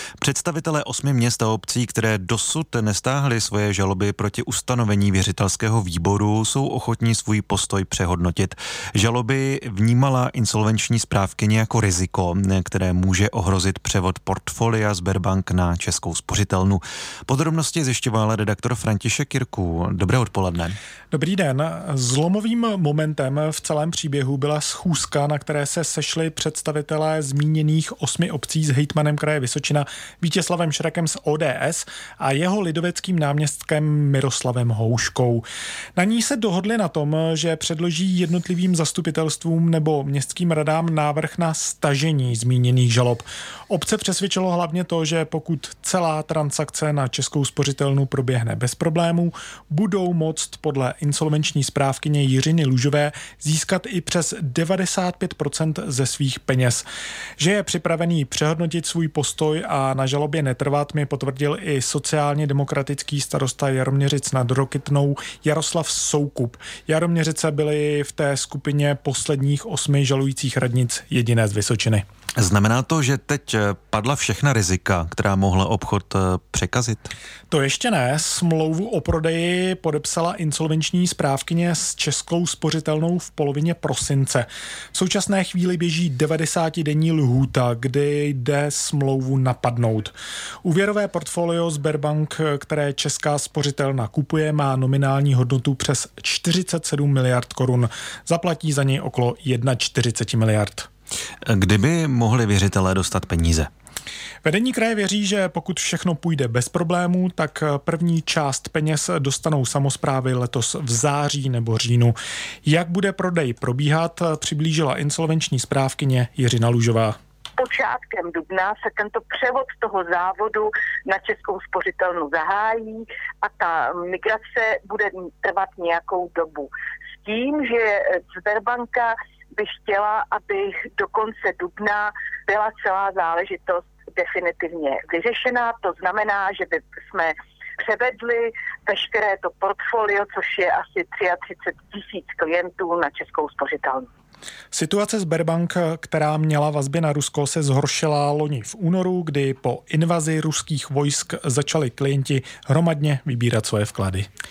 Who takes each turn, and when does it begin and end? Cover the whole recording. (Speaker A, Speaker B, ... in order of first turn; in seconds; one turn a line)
Speaker A: 0.2-20.8
Speaker B: 21.1-35.4
Speaker B: 36.0-56.8
Speaker B: 57.4-72.0
Speaker A: 72.4-77.1
Speaker B: 77.5-100.9
Speaker A: 101.4-103.7
Speaker B: 104.4-117.2
Speaker C: 117.6-126.7
Speaker C: 127.2-144.1
Speaker B: 144.7-154.3